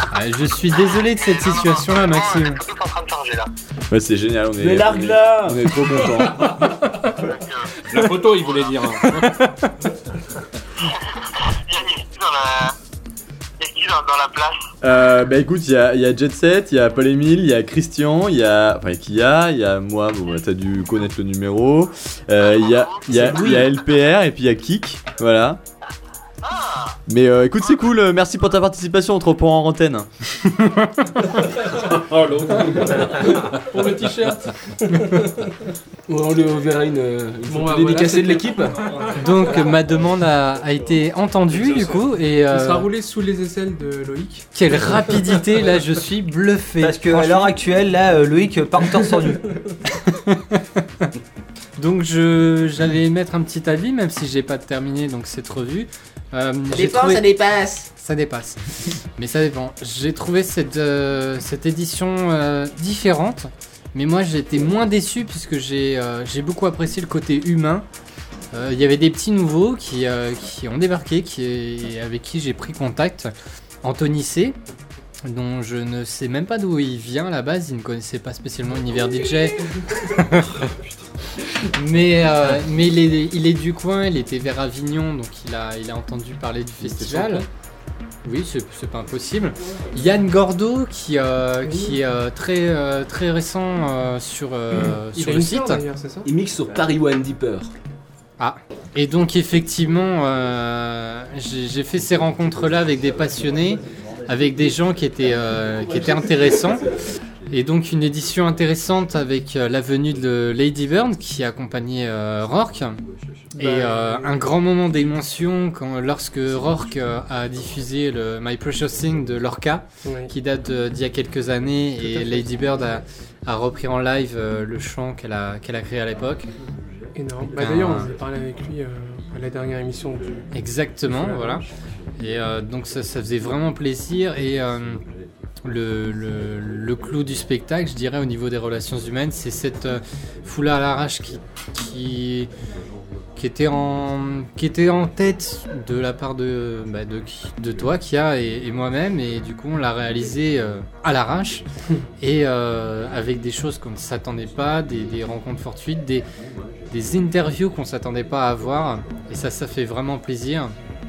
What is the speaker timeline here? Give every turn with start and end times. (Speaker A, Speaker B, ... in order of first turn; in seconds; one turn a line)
Speaker A: 0.1-2.6
Speaker B: 1.0-3.5
Speaker C: 3.9-6.8
Speaker D: 4.6-5.7
Speaker B: 7.2-8.8
Speaker E: 7.9-9.5
Speaker A: 9.0-9.7
Speaker B: 11.5-12.8
Speaker B: 13.6-14.7
Speaker C: 14.8-25.6
Speaker B: 22.4-23.2
Speaker D: 23.2-23.6
Speaker B: 26.4-27.0
Speaker C: 27.1-30.1
Speaker A: 30.6-31.4
Speaker E: 31.7-33.5
Speaker F: 33.2-35.5
Speaker D: 36.1-39.7
Speaker F: 37.5-38.8
Speaker C: 38.8-41.0
Speaker A: 39.1-42.9
Speaker E: 41.5-42.0
Speaker F: 42.5-44.5
Speaker A: 44.5-47.6
Speaker G: 46.8-49.5
Speaker A: 50.1-51.1
Speaker A: 51.8-57.4
Speaker A: 58.0-58.6
Speaker A: 59.2-67.9
Speaker A: 68.5-74.6
Speaker A: 75.2-80.7
Speaker A: 81.7-87.5
Speaker E: 86.8-87.5
Speaker A: 88.2-95.8
Speaker F: 91.6-92.0
Speaker F: 95.1-96.3
Speaker D: 96.2-97.7
Speaker A: 98.4-106.9
Speaker C: 103.0-104.6
Speaker C: 105.9-107.5
Speaker A: 107.5-113.0
Speaker F: 113.5-114.4
Speaker A: 113.6-126.5
Speaker F: 120.0-120.3
Speaker F: 122.0-123.0
Speaker F: 127.1-130.4
Speaker A: 127.5-128.1
Speaker A: 130.5-131.7
Speaker F: 131.0-131.7
Speaker A: 132.2-135.0
Speaker A: 135.6-142.5
Speaker A: 143.4-151.7
Speaker A: 152.2-156.3
Speaker A: 156.9-160.8